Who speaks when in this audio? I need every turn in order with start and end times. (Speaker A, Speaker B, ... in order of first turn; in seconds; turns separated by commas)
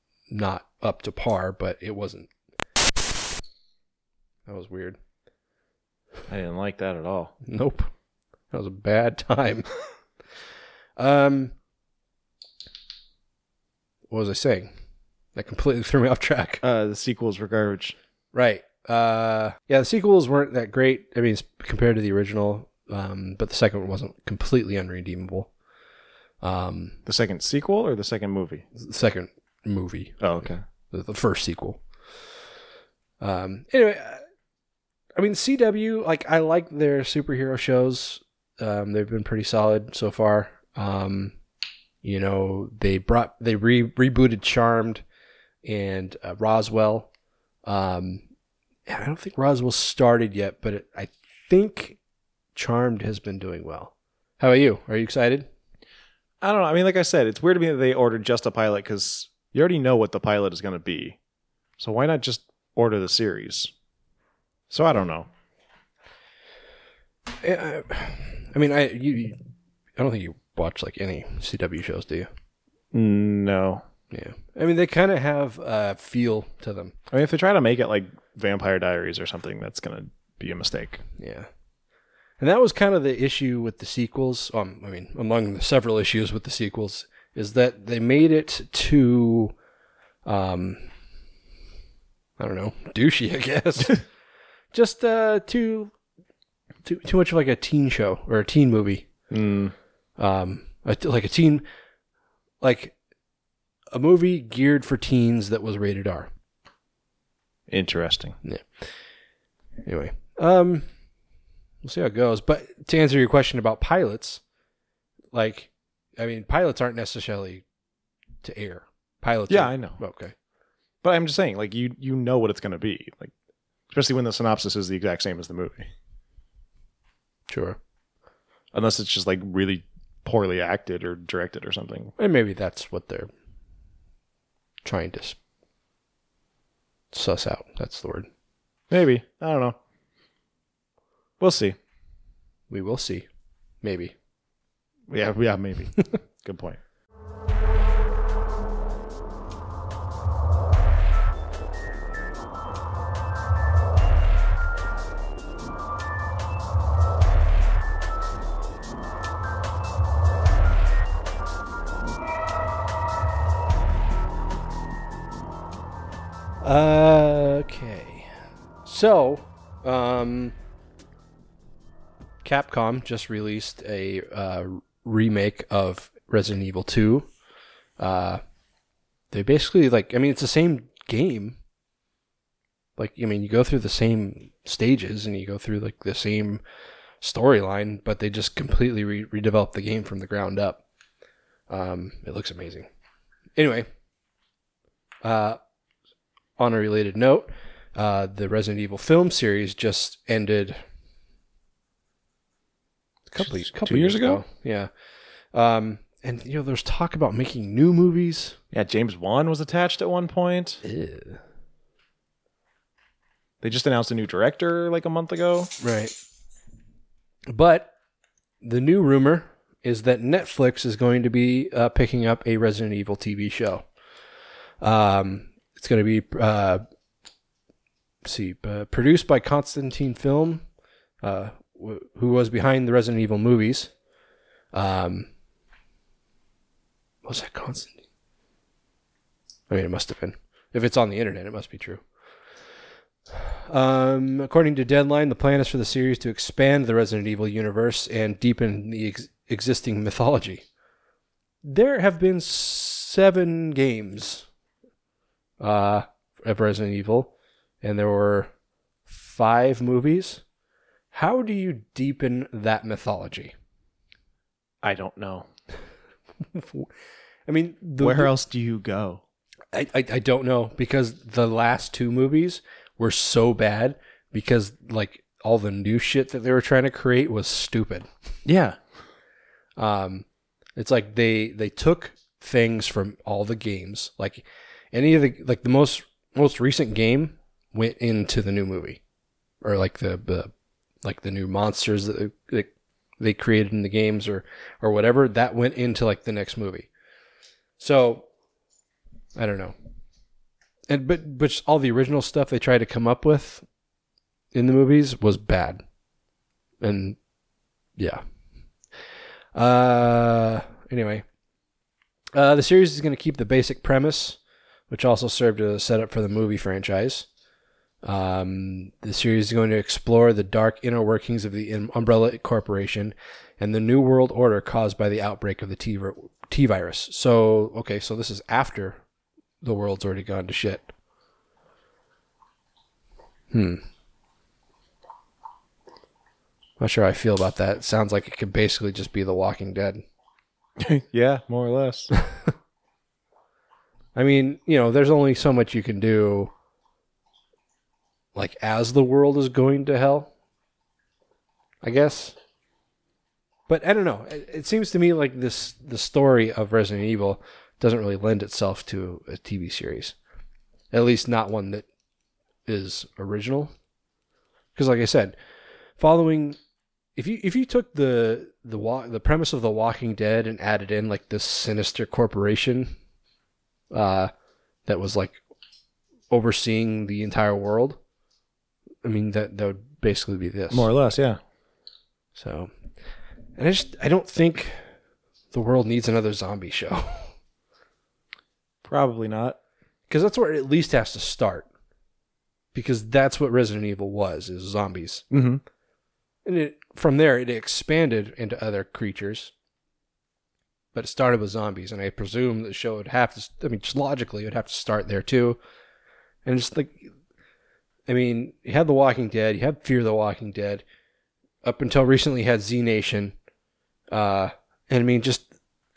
Speaker A: 0.3-2.3, Speaker A: 4.5-5.0, Speaker B: 6.3-7.3, Speaker A: 7.5-7.9, Speaker A: 8.5-9.7, Speaker A: 11.0-11.5, Speaker A: 14.1-14.7, Speaker A: 15.3-16.6, Speaker B: 16.6-18.0, Speaker A: 18.3-25.5, Speaker A: 26.4-27.0, Speaker B: 27.1-28.6, Speaker A: 28.8-31.8, Speaker B: 30.2-30.6, Speaker A: 33.2-34.2, Speaker A: 35.2-41.4, Speaker A: 42.0-45.0, Speaker A: 45.6-47.1, Speaker A: 47.7-48.2, Speaker A: 48.9-52.0, Speaker A: 52.5-55.5, Speaker B: 56.4-61.2, Speaker B: 61.8-63.7, Speaker B: 64.7-65.3, Speaker A: 67.4-69.4, Speaker A: 70.0-72.3, Speaker B: 72.9-73.8, Speaker A: 74.1-76.9, Speaker B: 77.1-81.0, Speaker A: 81.2-81.5, Speaker A: 82.4-89.5, Speaker A: 90.3-90.8, Speaker A: 92.4-94.0, Speaker A: 94.7-95.9, Speaker A: 96.8-99.1, Speaker B: 99.3-99.7, Speaker A: 100.2-101.7, Speaker A: 102.6-103.0, Speaker A: 103.9-106.3, Speaker B: 107.7-108.4, Speaker A: 109.8-110.9, Speaker A: 111.8-114.4, Speaker A: 115.3-117.6, Speaker A: 118.4-120.3, Speaker B: 119.5-120.0, Speaker B: 121.0-123.3, Speaker B: 123.9-125.9, Speaker A: 127.5-127.8, Speaker B: 128.7-132.1, Speaker A: 132.2-133.3, Speaker A: 134.8-135.4, Speaker A: 137.1-138.3, Speaker B: 138.9-139.8, Speaker B: 141.4-141.8, Speaker A: 142.7-143.3, Speaker A: 143.8-144.1, Speaker B: 145.1-146.8, Speaker A: 166.6-168.3, Speaker A: 168.8-170.6, Speaker A: 172.4-177.3, Speaker A: 178.0-178.4, Speaker A: 179.3-181.6, Speaker A: 183.0-186.6, Speaker A: 187.2-190.8, Speaker A: 191.7-192.9, Speaker A: 193.6-193.9, Speaker A: 195.2-195.6, Speaker A: 196.6-200.8, Speaker A: 203.3-204.9, Speaker B: 203.4-204.4, Speaker A: 205.5-208.6, Speaker B: 208.7-210.8, Speaker A: 210.8-211.4, Speaker B: 213.6-215.7, Speaker A: 215.8-216.1, Speaker A: 217.5-217.9, Speaker A: 218.6-223.8, Speaker A: 224.8-226.8, Speaker A: 228.2-230.6, Speaker A: 231.2-233.9, Speaker A: 234.7-235.3, Speaker A: 237.2-238.0, Speaker A: 239.7-242.0, Speaker A: 243.3-250.7, Speaker A: 251.6-254.5, Speaker A: 255.6-258.5, Speaker A: 259.1-260.4, Speaker A: 261.1-263.5, Speaker B: 264.8-265.5, Speaker A: 266.5-266.9, Speaker A: 267.5-268.3, Speaker B: 268.0-269.2, Speaker A: 269.7-278.1, Speaker B: 278.4-278.8, Speaker A: 279.8-280.2, Speaker A: 280.8-289.0, Speaker A: 289.6-290.5, Speaker A: 291.0-296.9, Speaker A: 297.8-298.3, Speaker A: 299.4-299.8, Speaker A: 300.9-303.6, Speaker A: 304.5-305.8, Speaker A: 306.8-307.2, Speaker A: 308.0-308.2, Speaker A: 309.6-311.2, Speaker A: 312.3-314.4, Speaker A: 314.9-317.3, Speaker A: 318.0-329.0, Speaker A: 329.6-330.9, Speaker A: 333.5-333.8, Speaker A: 336.8-340.0, Speaker B: 340.8-342.1, Speaker A: 344.1-346.5, Speaker A: 348.4-350.3, Speaker A: 351.8-352.4, Speaker A: 353.7-360.1, Speaker A: 360.9-361.9, Speaker A: 362.7-363.7, Speaker A: 364.8-365.4, Speaker A: 366.0-366.6, Speaker A: 367.2-373.0, Speaker A: 373.9-374.3, Speaker A: 374.9-375.4, Speaker A: 376.3-378.0, Speaker A: 379.0-380.9, Speaker B: 380.7-381.4, Speaker A: 382.4-382.7, Speaker A: 383.6-384.8, Speaker A: 385.5-387.3, Speaker B: 388.9-389.6, Speaker A: 390.1-391.7, Speaker A: 392.7-395.2, Speaker B: 395.3-395.6, Speaker A: 396.4-399.5, Speaker A: 400.9-405.6, Speaker A: 406.4-407.1, Speaker A: 408.1-410.8, Speaker A: 411.6-413.4, Speaker A: 414.1-415.5